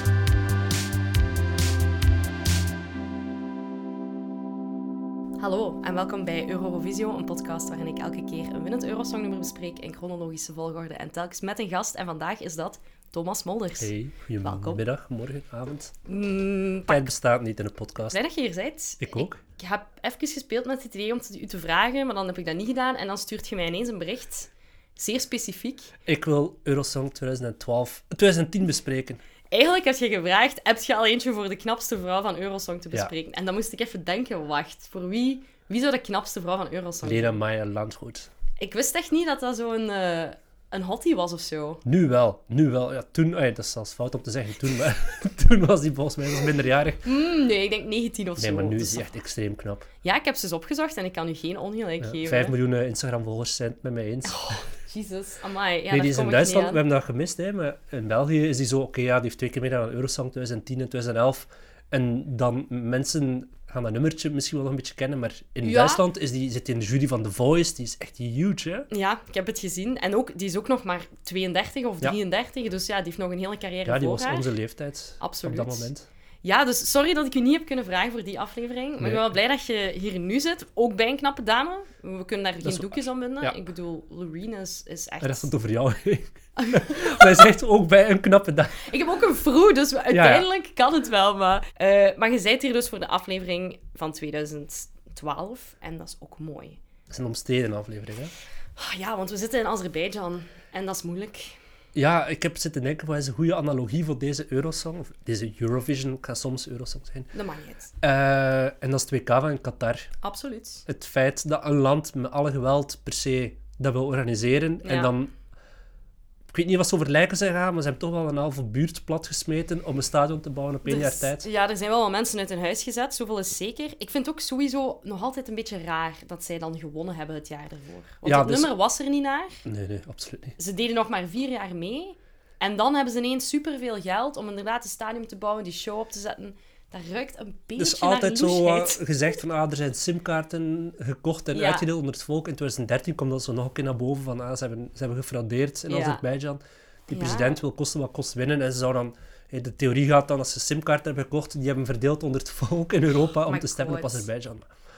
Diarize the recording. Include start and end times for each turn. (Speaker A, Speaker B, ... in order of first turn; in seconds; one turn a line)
Speaker A: 5.4-14.8
Speaker B: 13.8-15.9
Speaker A: 16.1-17.0
Speaker B: 16.9-18.2
Speaker A: 18.1-25.9
Speaker B: 19.0-19.4
Speaker B: 26.1-29.2
Speaker A: 29.5-37.4
Speaker B: 37.0-38.3
Speaker A: 38.6-41.8
Speaker B: 41.8-47.0
Speaker A: 47.0-49.1
Speaker B: 48.4-49.9
Speaker A: 50.0-52.5
Speaker B: 52.0-54.5
Speaker A: 54.2-56.8
Speaker B: 55.9-68.9
Speaker A: 65.6-66.0
Speaker A: 68.9-74.5
Speaker B: 73.8-76.1
Speaker A: 75.2-75.9
Speaker A: 76.4-85.5
Speaker B: 82.6-83.6
Speaker B: 85.2-88.9
Speaker A: 86.5-87.5
Speaker A: 88.8-96.8
Speaker B: 90.1-90.5
Speaker B: 97.1-98.3
Speaker A: 98.8-101.6
Speaker B: 101.9-107.3
Speaker A: 107.3-107.9
Speaker B: 108.0-110.1
Speaker A: 110.2-110.8
Speaker B: 110.8-115.3
Speaker A: 114.8-115.1
Speaker B: 116.5-121.5
Speaker A: 120.8-129.6
Speaker B: 128.2-128.7
Speaker B: 129.6-130.6
Speaker A: 130.6-139.1
Speaker B: 137.8-154.7
Speaker A: 141.5-141.9
Speaker A: 145.9-146.2
Speaker A: 147.1-147.6
Speaker A: 153.3-154.3